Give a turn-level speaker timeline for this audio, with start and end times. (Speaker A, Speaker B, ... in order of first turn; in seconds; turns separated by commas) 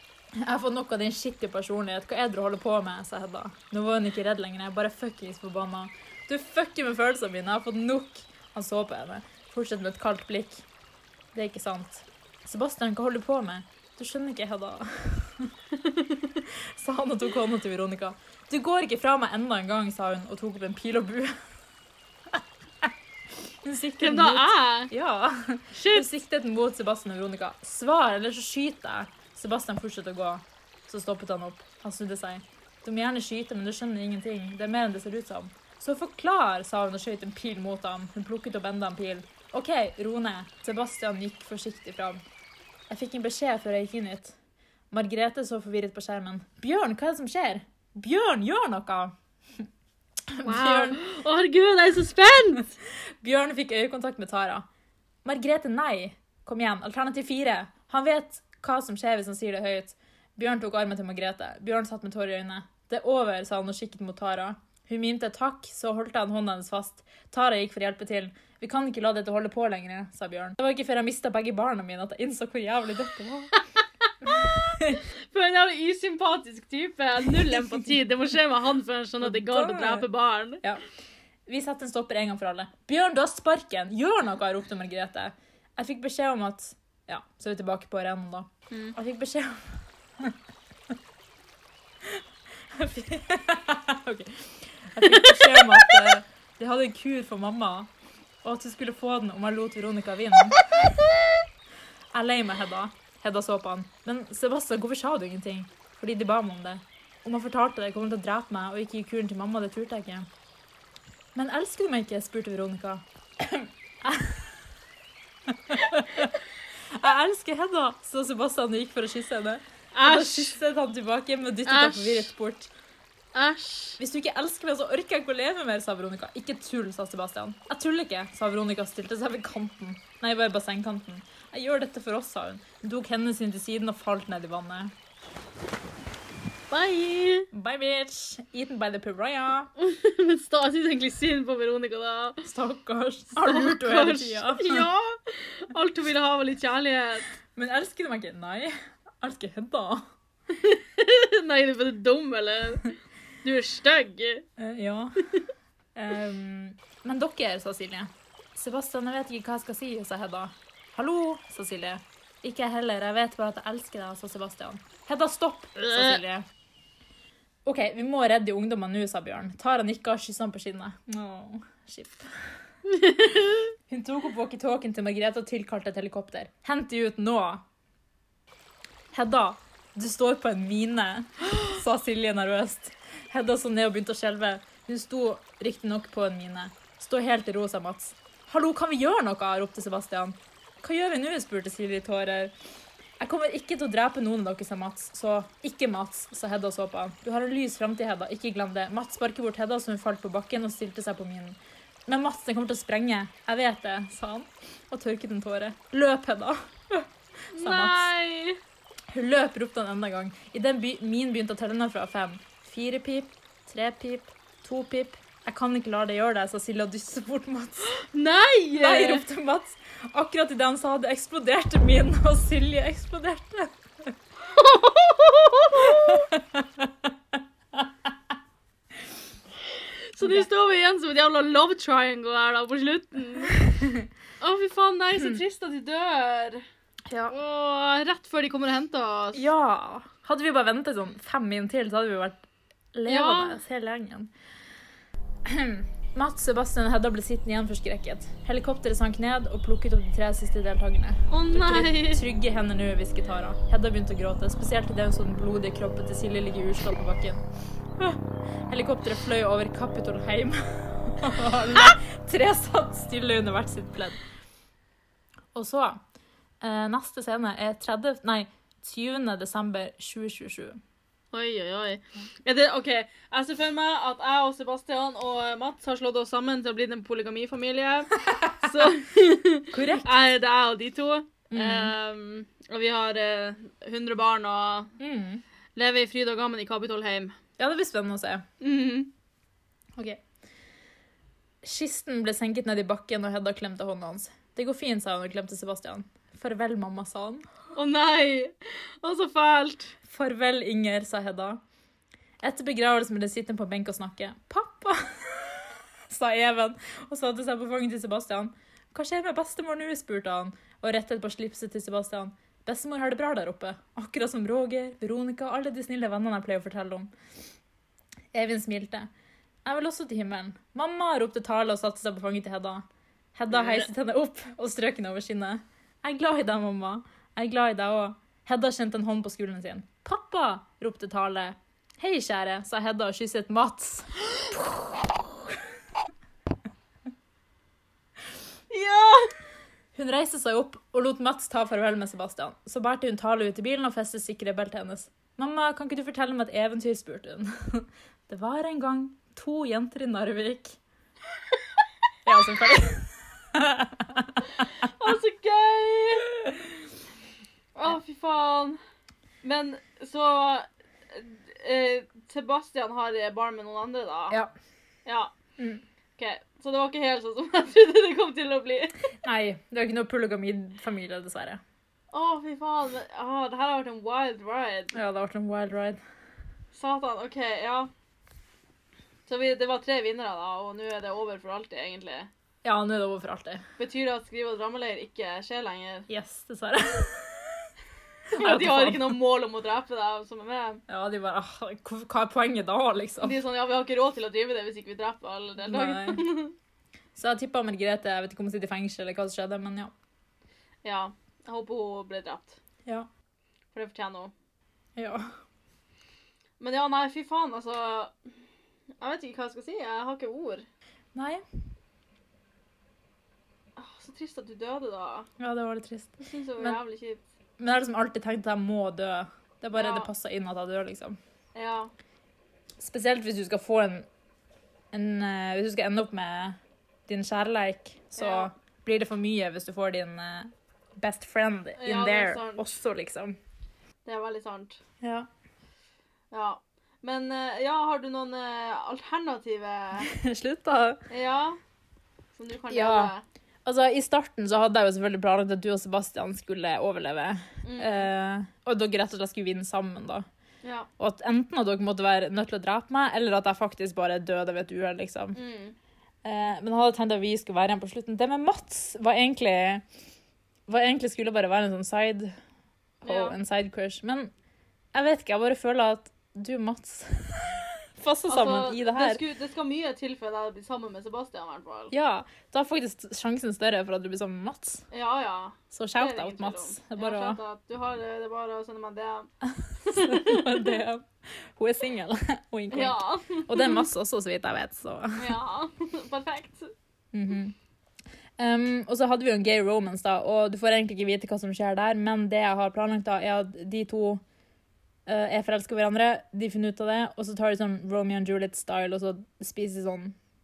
Speaker A: 0.4-10.7, Speaker A: 11.3-15.5, Speaker B: 15.7-16.4, Speaker A: 16.5-21.4, Speaker A: 22.3-22.9, Speaker A: 23.6-42.2, Speaker B: 24.0-24.9, Speaker B: 25.7-26.1, Speaker A: 42.9-44.4, Speaker A: 44.9-49.1, Speaker A: 50.3-51.0, Speaker B: 50.5-52.7, Speaker A: 53.2-54.7, Speaker A: 55.2-73.6, Speaker A: 74.2-75.0, Speaker B: 74.3-80.6, Speaker A: 77.5-77.9, Speaker A: 79.2-80.1, Speaker A: 81.5-90.3, Speaker B: 88.7-89.0, Speaker A: 92.7-97.9, Speaker B: 95.0-96.1, Speaker A: 98.4-100.9, Speaker A: 102.1-110.3, Speaker A: 111.3-114.5, Speaker A: 115.5-116.4, Speaker A: 116.9-122.7, Speaker B: 119.9-120.6, Speaker B: 121.7-122.3, Speaker B: 123.3-124.0, Speaker A: 124.0-134.9, Speaker B: 136.7-137.5, Speaker A: 137.5-139.7, Speaker B: 139.8-142.4, Speaker A: 142.4-144.9, Speaker B: 143.4-147.3, Speaker A: 147.5-150.1, Speaker B: 150.5-154.5, Speaker A: 154.6-155.2, Speaker A: 155.9-166.5, Speaker B: 165.8-166.2, Speaker A: 167.7-172.3, Speaker B: 172.9-173.7, Speaker A: 173.9-177.7, Speaker A: 179.1-192.5, Speaker A: 193.2-208.1, Speaker B: 207.5-208.6, Speaker A: 209.1-217.9, Speaker B: 217.9-219.3, Speaker A: 218.8-223.7, Speaker B: 224.4-226.3, Speaker A: 225.8-227.1, Speaker B: 229.7-233.6, Speaker A: 230.2-230.5, Speaker A: 233.7-234.1, Speaker B: 234.4-236.6, Speaker A: 237.1-237.4, Speaker B: 237.3-239.5, Speaker A: 239.3-244.3, Speaker B: 243.1-243.6, Speaker A: 245.5-257.4, Speaker B: 251.3-252.2, Speaker A: 258.0-264.2, Speaker A: 265.5-266.0, Speaker A: 266.6-270.8, Speaker B: 271.3-284.9, Speaker A: 278.2-278.7, Speaker A: 279.7-280.1, Speaker A: 281.5-281.9, Speaker A: 285.0-285.4, Speaker B: 285.8-287.4, Speaker A: 287.6-288.5, Speaker B: 288.6-289.1, Speaker A: 290.0-290.2, Speaker A: 291.6-297.5, Speaker B: 297.8-299.9, Speaker A: 300.1-301.6, Speaker A: 302.4-317.1, Speaker A: 318.3-319.1, Speaker A: 319.6-322.9, Speaker A: 323.4-335.0, Speaker B: 323.5-323.9, Speaker B: 338.7-339.3, Speaker A: 339.9-350.8, Speaker A: 352.2-354.5, Speaker B: 354.6-356.3, Speaker B: 357.8-358.8, Speaker B: 359.4-364.4, Speaker B: 365.1-365.3, Speaker A: 365.6-365.8, Speaker B: 366.2-369.0, Speaker A: 369.2-371.6, Speaker B: 372.1-375.0, Speaker A: 374.9-376.0, Speaker B: 376.7-377.9, Speaker B: 379.3-382.3, Speaker A: 382.6-383.6, Speaker B: 383.8-386.1, Speaker A: 386.1-387.7, Speaker A: 388.3-389.2, Speaker B: 388.3-390.8, Speaker A: 390.9-393.4, Speaker B: 393.2-396.6, Speaker A: 395.6-396.2, Speaker A: 397.1-399.9, Speaker B: 400.8-402.6, Speaker B: 403.7-404.3, Speaker A: 405.0-405.3, Speaker B: 406.6-408.3, Speaker B: 409.0-410.7, Speaker A: 411.1-411.4, Speaker B: 413.8-415.3, Speaker A: 415.4-416.8, Speaker B: 416.2-417.2, Speaker A: 417.6-421.2, Speaker B: 419.8-420.1, Speaker B: 421.6-421.9, Speaker A: 422.8-424.1, Speaker A: 424.9-433.4, Speaker B: 428.2-428.5, Speaker B: 431.8-432.8, Speaker B: 434.1-434.8, Speaker A: 435.0-435.3, Speaker B: 436.3-440.1, Speaker A: 440.0-441.1, Speaker B: 441.1-441.6, Speaker B: 442.3-443.2, Speaker A: 442.7-443.1, Speaker A: 443.6-450.3, Speaker B: 447.6-448.1, Speaker B: 450.6-450.9, Speaker A: 451.0-455.4, Speaker B: 455.4-455.8, Speaker A: 456.2-459.8, Speaker A: 460.7-462.4, Speaker A: 463.0-464.3, Speaker B: 463.1-463.4, Speaker A: 464.9-469.2, Speaker B: 468.3-471.9, Speaker A: 471.9-474.9, Speaker B: 474.9-480.8, Speaker A: 475.7-477.4, Speaker A: 479.4-485.4, Speaker B: 482.7-483.9, Speaker B: 485.2-486.7, Speaker A: 487.1-487.6, Speaker A: 488.4-494.2, Speaker A: 495.1-500.2